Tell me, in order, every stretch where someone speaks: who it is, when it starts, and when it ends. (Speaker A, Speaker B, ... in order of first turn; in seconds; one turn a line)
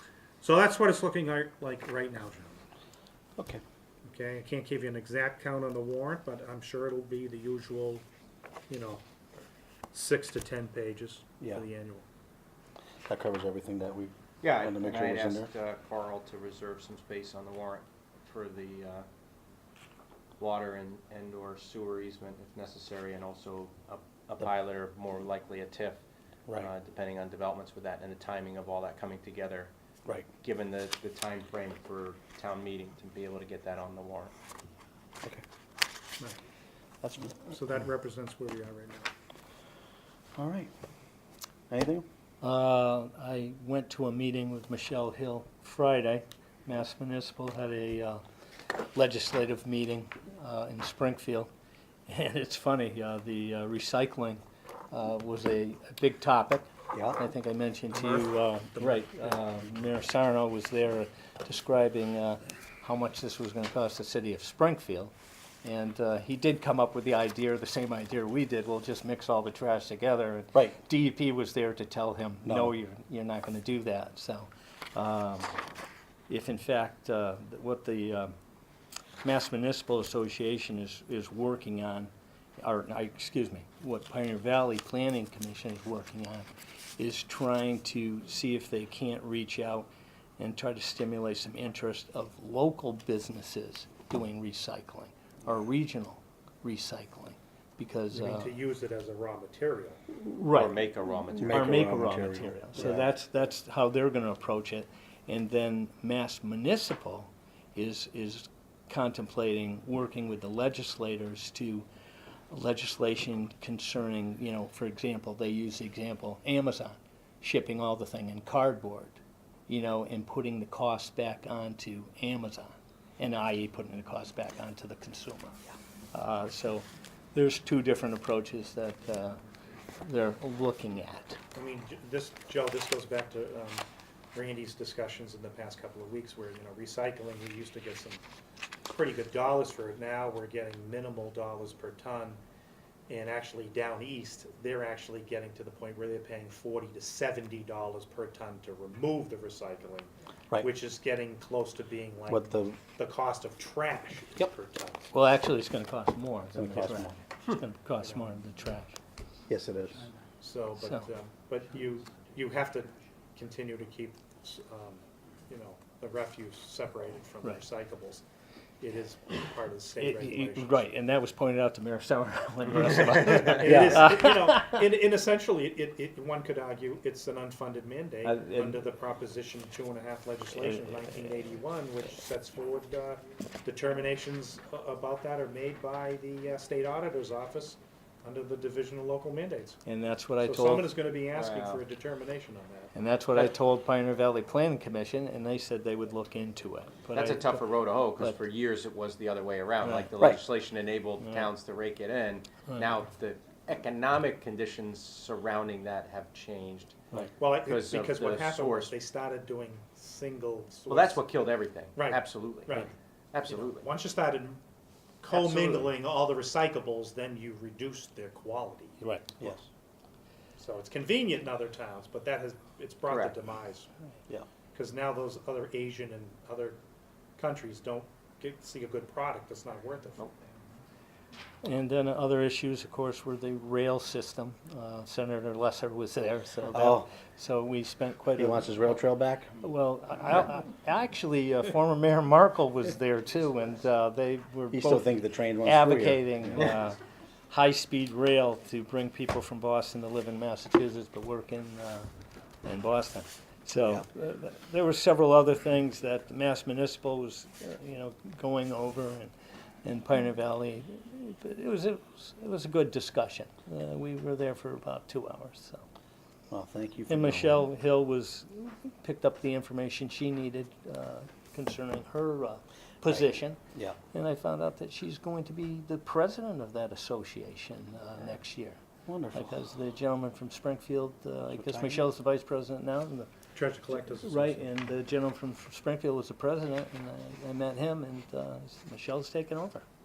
Speaker A: 0.4-2.6
Speaker B: 3.4-3.6
Speaker A: 4.0-8.1
Speaker A: 8.7-9.0
Speaker A: 9.9-12.1
Speaker B: 13.1-15.5
Speaker C: 14.4-19.1
Speaker C: 20.4-26.0
Speaker C: 26.6-29.7
Speaker C: 30.4-34.3
Speaker B: 37.0-37.5
Speaker A: 37.4-39.1
Speaker B: 40.4-40.7
Speaker B: 41.7-42.1
Speaker D: 42.4-48.2
Speaker D: 48.9-51.5
Speaker D: 52.1-65.1
Speaker B: 56.9-57.2
Speaker A: 57.9-59.4
Speaker D: 65.6-75.6
Speaker B: 72.4-72.7
Speaker D: 76.3-78.3
Speaker D: 79.2-89.9
Speaker D: 90.4-98.6
Speaker A: 98.1-100.0
Speaker D: 100.1-100.8
Speaker C: 100.5-102.0
Speaker B: 101.4-103.1
Speaker D: 101.5-111.9
Speaker D: 112.5-125.6
Speaker D: 126.1-129.4
Speaker D: 130.0-131.4
Speaker A: 131.5-138.2
Speaker A: 138.9-142.4
Speaker A: 143.1-155.1
Speaker B: 152.3-152.8
Speaker D: 155.1-159.0
Speaker B: 156.5-157.2
Speaker A: 158.0-158.4
Speaker B: 159.5-160.1
Speaker A: 160.4-168.2
Speaker D: 160.8-161.1
Speaker A: 168.8-170.9
Speaker D: 170.0-174.8
Speaker A: 173.0-189.8
Speaker B: 173.6-174.1
Speaker D: 178.2-178.8
Speaker D: 180.6-181.3
Speaker D: 189.8-190.9
Speaker A: 190.4-192.9
Speaker C: 191.3-191.8
Speaker D: 192.9-197.6
Speaker C: 197.1-208.9
Speaker D: 199.8-200.2
Speaker D: 201.2-201.5
Speaker A: 207.4-211.3
Speaker C: 210.9-213.9
Speaker A: 211.9-212.9
Speaker A: 213.4-214.6
Speaker A: 215.2-219.1
Speaker C: 215.3-215.7
Speaker A: 220.6-223.9
Speaker C: 223.1-223.3
Speaker A: 224.7-226.8
Speaker A: 227.4-230.3
Speaker D: 231.6-238.9
Speaker B: 236.7-237.1
Speaker B: 238.3-239.5
Speaker D: 239.6-247.0
Speaker B: 244.7-246.5
Speaker D: 247.5-252.1
Speaker D: 252.6-259.3
Speaker D: 259.8-265.9
Speaker B: 266.5-267.7
Speaker D: 267.1-273.6
Speaker B: 273.1-274.0
Speaker D: 274.1-278.8
Speaker B: 279.1-279.6
Speaker D: 279.3-283.3
Speaker B: 281.5-282.1
Speaker A: 283.5-284.7
Speaker D: 283.9-289.9